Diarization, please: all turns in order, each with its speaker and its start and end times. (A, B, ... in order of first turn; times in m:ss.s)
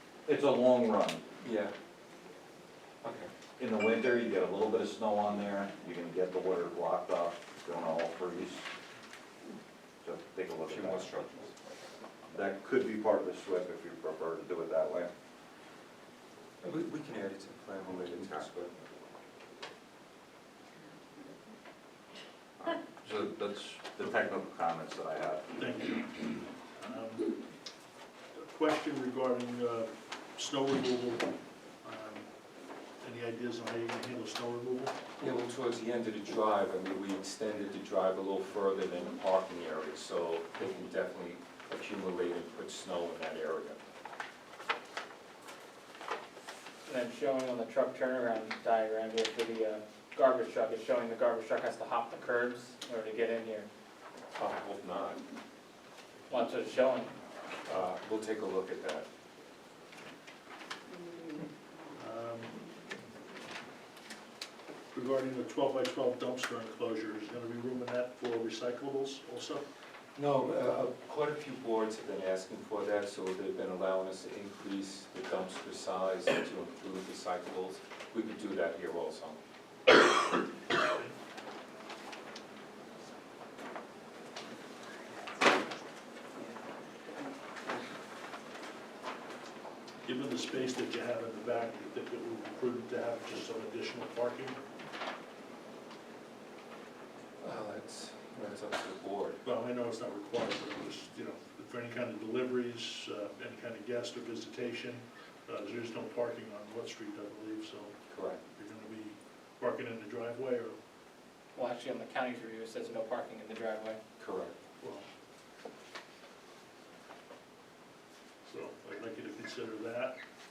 0:00.2-0:01.2 A
0:01.4-0:01.7 B
0:03.0-0:03.3 B
0:03.6-0:08.7 A
0:10.0-0:11.1 A
0:10.7-0:11.5 B
0:12.3-0:15.1 A
0:16.6-0:18.7 B
0:18.2-0:18.5 A
0:22.6-0:25.6 A
0:25.6-0:27.3 C
0:28.4-0:32.3 C
0:33.0-0:35.0 C
0:35.2-0:43.8 B
0:46.8-0:53.7 D
0:54.3-0:55.2 B
0:56.2-0:56.5 B
0:56.3-0:57.1 D
0:57.6-0:59.0 B
1:01.9-1:02.5 C
1:04.9-1:09.6 C
1:10.2-1:19.4 B
1:30.0-1:34.6 C
1:37.4-1:39.4 B
1:39.4-1:50.8 C
1:48.1-1:48.4 B
1:51.5-1:54.0 D
1:54.2-1:54.6 B
1:54.8-1:55.1 C
1:58.4-2:00.2 C